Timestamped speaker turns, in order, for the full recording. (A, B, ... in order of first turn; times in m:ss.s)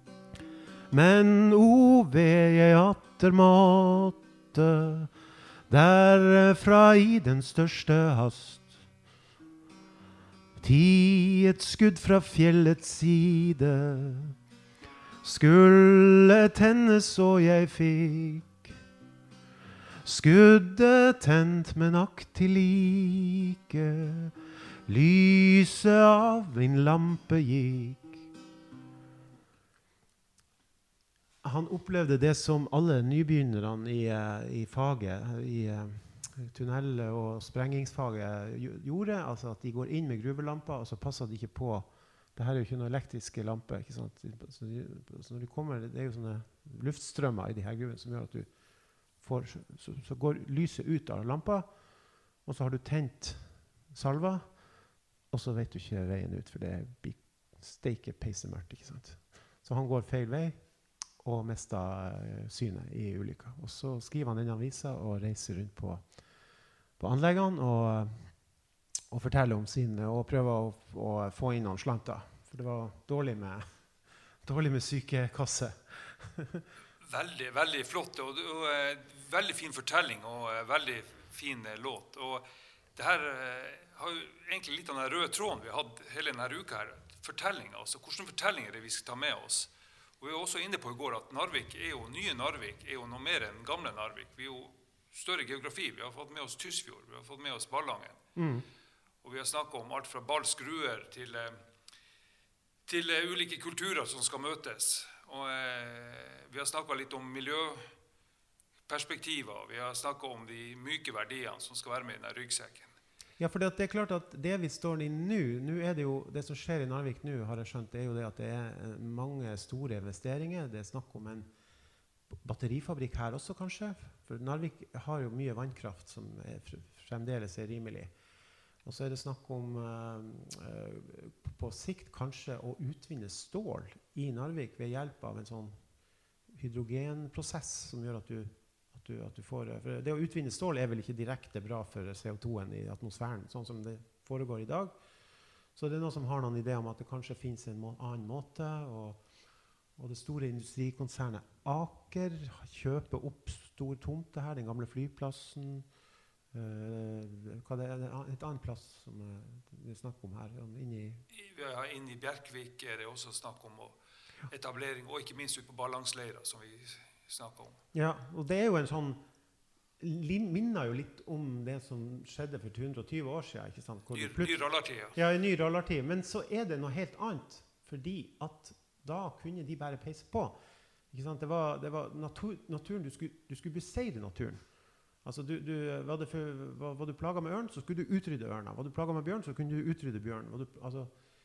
0:00.9-0:05.1 A
0:05.7-0:08.8 A
0:10.6-0:14.3 A
0:15.2-0:18.7 A
0:20.0-0:24.3 A
0:24.9-0:28.2 A
0:31.4-0:48.6 A
0:49.1-0:51.8 A
0:52.4-0:54.7 A
0:55.3-1:06.2 A
1:07.0-1:08.4 A
1:09.1-1:13.6 A
1:14.4-1:16.6 A
1:17.0-1:38.2 B
1:38.4-1:38.6 A
1:39.2-1:41.6 B
1:42.9-1:47.9 B
1:48.9-1:52.9 B
1:53.4-2:01.5 A
2:02.3-2:08.1 A
2:08.8-2:15.8 A
2:16.5-2:24.9 A
2:25.7-2:29.2 A
2:30.0-2:35.9 A
2:36.5-2:41.2 A
2:41.3-2:47.8 B
2:47.9-2:49.2 A
2:50.0-3:00.6 A
2:54.1-2:55.2 B
3:01.1-3:11.2 A